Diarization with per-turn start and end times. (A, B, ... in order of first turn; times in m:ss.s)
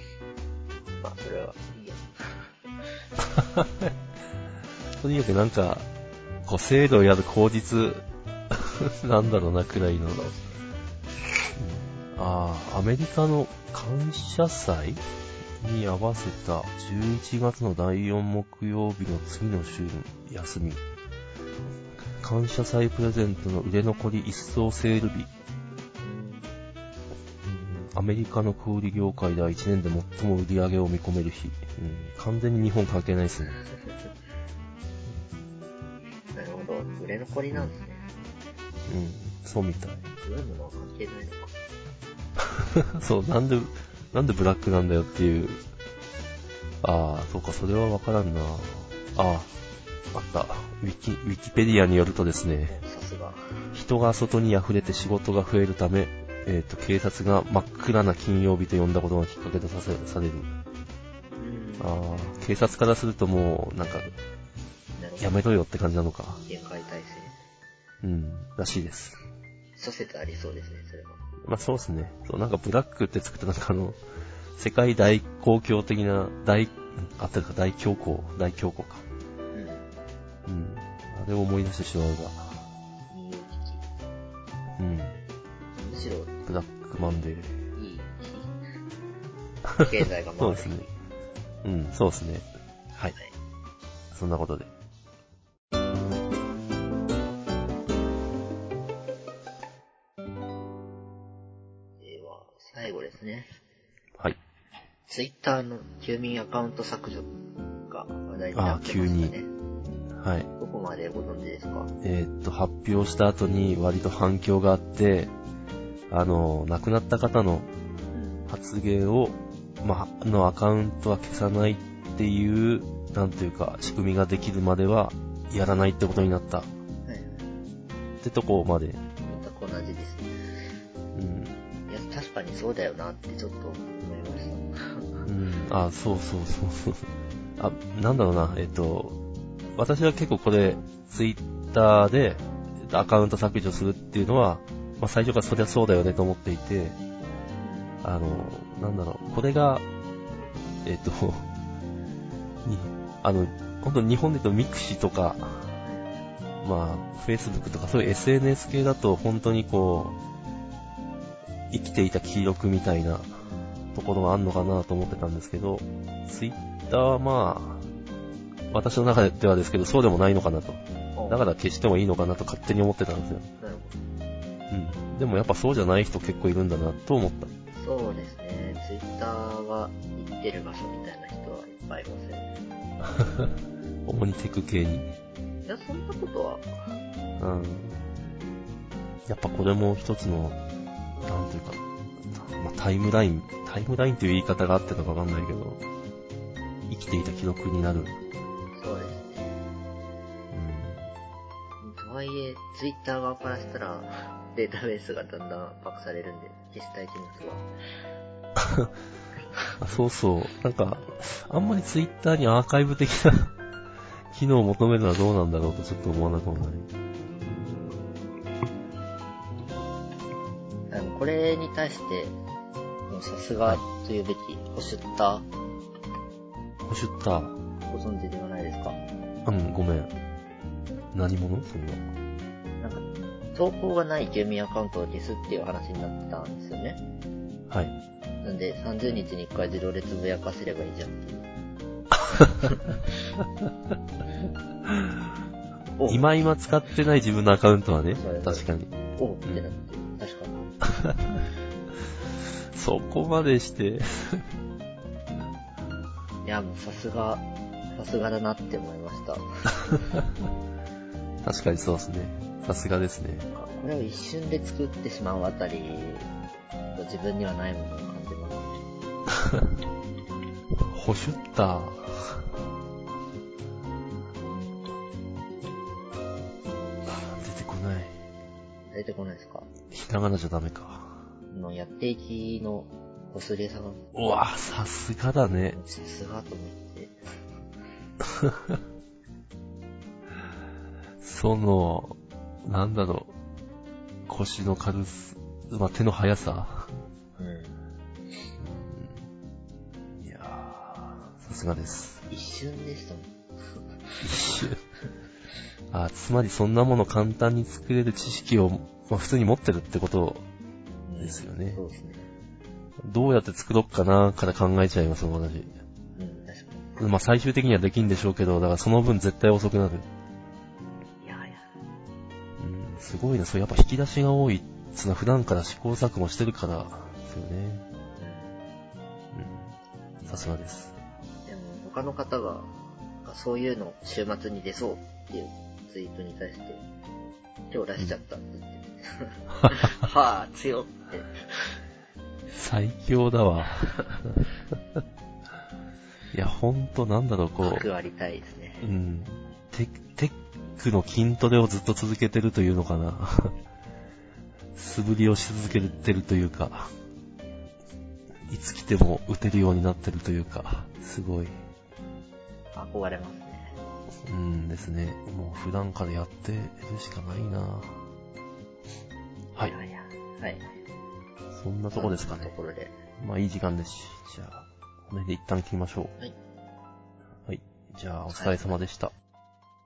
0:01.0-0:02.5 A
0:03.4-0:03.9 B
0:05.0-0:05.9 B
0:06.4-0:10.3 B
0:10.1-0:10.6 A
0:11.6-0:15.0 B
0:15.6-0:20.8 B
0:22.2-0:25.3 B
0:26.0-0:26.5 A
0:27.4-0:33.6 B
0:36.4-0:38.0 A
0:38.9-0:40.1 B
0:40.2-0:41.6 A
0:42.6-0:45.6 B
0:46.8-0:49.5 B
0:50.1-0:52.8 B
0:52.8-0:53.6 A
0:53.7-1:00.5 B
1:01.4-1:01.9 A
1:01.8-1:04.1 B
1:05.0-1:05.4 A
1:05.2-1:06.4 B
1:06.5-1:07.4 A
1:08.0-1:09.2 B
1:09.8-1:11.2 A
1:11.4-1:14.0 B
1:14.6-1:19.0 B
1:19.5-1:19.9 A
1:20.5-1:22.6 B
1:23.1-1:23.8 A
1:24.8-1:25.2 B
1:25.8-1:26.4 A
1:26.5-1:27.6 B
1:27.8-1:28.6 A
1:29.7-1:30.9 B
1:29.8-1:30.9 A
1:31.6-1:33.2 B
1:34.1-1:34.7 B
1:42.0-1:43.6 A
1:45.1-1:47.3 A
1:47.9-1:49.5 A
1:48.6-1:49.4 B
1:50.2-1:50.5 B
1:50.6-1:51.9 A
1:52.0-1:55.3 B
1:56.1-1:57.7 B
1:58.1-1:58.5 A
1:58.5-2:06.7 B
2:07.1-2:07.4 A
2:08.2-2:09.0 B
2:09.2-2:10.4 A
2:11.2-2:11.6 B
2:11.9-2:15.3 A
2:15.3-2:19.2 B
2:19.8-2:27.0 B
2:27.6-2:28.0 A
2:28.0-2:29.8 B
2:30.8-2:31.5 B
2:32.6-2:35.7 B
2:35.8-2:36.1 A
2:36.6-2:40.2 B
2:41.7-2:43.3 B
2:44.0-2:47.8 B
2:48.7-2:53.5 B
2:51.2-2:51.4 A
2:53.6-2:54.0 A
2:54.7-2:57.5 B
2:57.8-3:02.5 A
3:04.1-3:05.1 B
3:05.7-3:06.6 A
3:07.4-3:08.0 B
3:09.3-3:10.6 B
3:11.2-3:15.8 B
3:16.9-3:18.2 B
3:18.7-3:19.5 A
3:20.5-3:21.1 B
3:21.8-3:27.7 A
3:28.6-3:28.9 B
3:29.8-3:33.5 B
3:34.3-3:36.9 B
3:40.9-3:42.4 A
3:43.1-3:45.5 A
3:46.8-3:47.6 B
3:47.9-3:49.0 A
3:49.5-3:50.1 B
3:51.1-3:52.0 B
3:52.8-3:57.0 A
3:57.7-3:58.0 B
3:58.4-4:01.5 A
4:02.3-4:02.6 B
4:02.6-4:02.9 A
4:04.9-4:05.1 B
4:06.0-4:06.2 A
4:06.1-4:08.9 B
4:08.2-4:10.6 A
4:10.9-4:11.4 B
4:12.7-4:14.4 B
4:16.4-4:20.0 A
4:21.4-4:23.5 B
4:23.5-4:26.3 A
4:27.0-4:28.9 A
4:29.5-4:29.7 B
4:30.9-4:32.5 B
4:37.1-4:38.2 B
4:38.9-4:39.7 A
4:39.9-4:41.2 B
4:41.5-4:44.0 A
4:44.1-4:45.8 B
4:45.7-4:47.2 A
4:48.4-4:48.8 B
4:51.2-4:53.3 B
4:54.3-4:56.9 B
4:57.4-4:57.8 A
4:58.6-4:59.2 B
5:00.2-5:02.2 B
5:02.3-5:03.3 A
5:04.1-5:04.6 A
5:04.2-5:04.8 B
5:05.9-5:10.4 B
5:11.1-5:12.2 A
5:11.2-5:11.8 B
5:13.0-5:15.7 B
5:16.2-5:17.1 A
5:17.0-5:20.1 B
5:21.2-5:21.7 A
5:22.6-5:27.8 B
5:28.2-5:28.6 A
5:29.3-5:29.7 B
5:30.2-5:30.9 B
5:31.5-5:32.7 A
5:33.2-5:36.8 A
5:37.7-5:41.8 A
5:42.5-5:44.5 B
5:46.3-5:47.9 B
5:47.6-5:48.9 A
5:48.8-5:53.6 B
5:54.8-5:56.9 B
5:58.5-6:01.6 B
6:02.8-6:03.8 A
6:04.3-6:08.0 B
6:09.6-6:10.6 A
6:11.5-6:12.5 B
6:11.9-6:12.9 A
6:13.2-6:16.1 B
6:17.5-6:19.1 B
6:18.3-6:18.8 A